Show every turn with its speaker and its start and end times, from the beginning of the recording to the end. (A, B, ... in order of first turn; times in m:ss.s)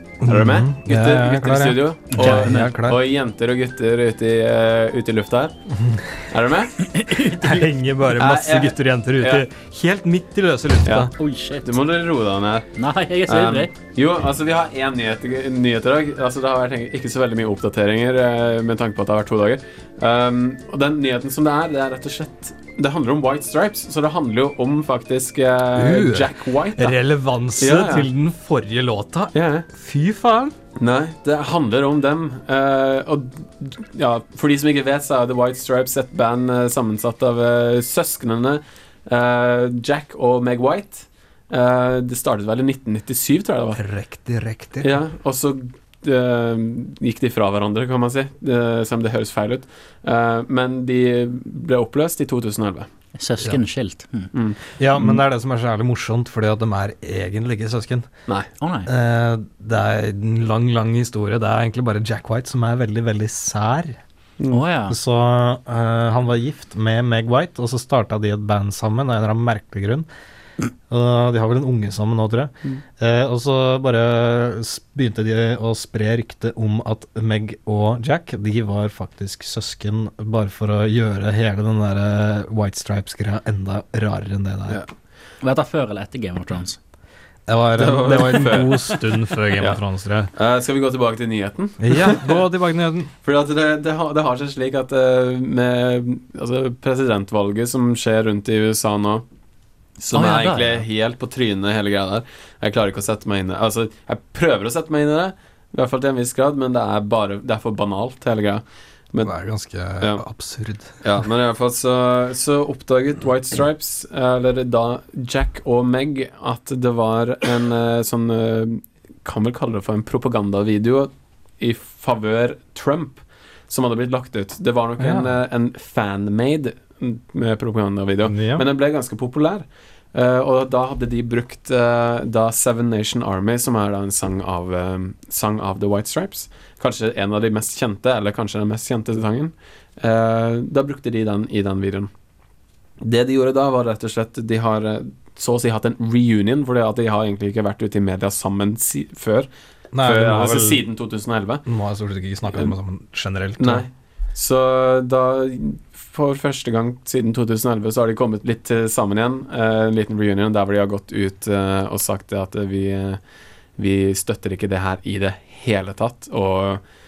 0:00.2-0:03.0 A
0:00.3-0:05.6 B
0:02.1-0:02.8 C
0:05.7-0:06.2 A
0:06.3-0:06.8 B
0:06.9-0:07.6 C
0:07.4-0:11.1 A
0:08.1-0:09.5 B
0:11.2-0:11.8 C
0:11.6-0:12.7 B
0:12.8-0:13.7 C
0:13.3-0:27.0 B
0:25.8-0:30.6 A
0:27.6-0:28.1 B
0:29.3-0:29.7 B
0:30.8-0:43.8 B
0:43.8-0:44.9 A
0:44.8-0:52.9 B
0:53.2-0:54.3 C
0:54.3-0:55.2 B
0:54.8-0:58.1 A
0:58.6-0:58.9 C
0:58.9-1:04.0 A
1:04.5-1:05.0 C
1:04.9-1:10.1 A
1:10.9-1:24.8 A
1:25.4-1:26.8 C
1:27.5-1:30.3 A
1:27.8-1:29.0 B
1:29.6-1:29.8 B
1:30.3-1:32.4 B
1:31.8-1:33.1 A
1:33.2-1:39.2 B
1:40.0-1:49.3 B
1:40.1-1:40.8 C
1:49.2-1:51.0 A
1:51.0-2:22.1 B
2:05.0-2:05.3 A
2:08.3-2:08.6 A
2:23.0-2:29.5 B
2:29.9-2:30.8 A
2:30.0-2:31.6 B
2:31.7-2:33.8 A
2:33.6-2:43.2 B
2:43.8-2:46.8 B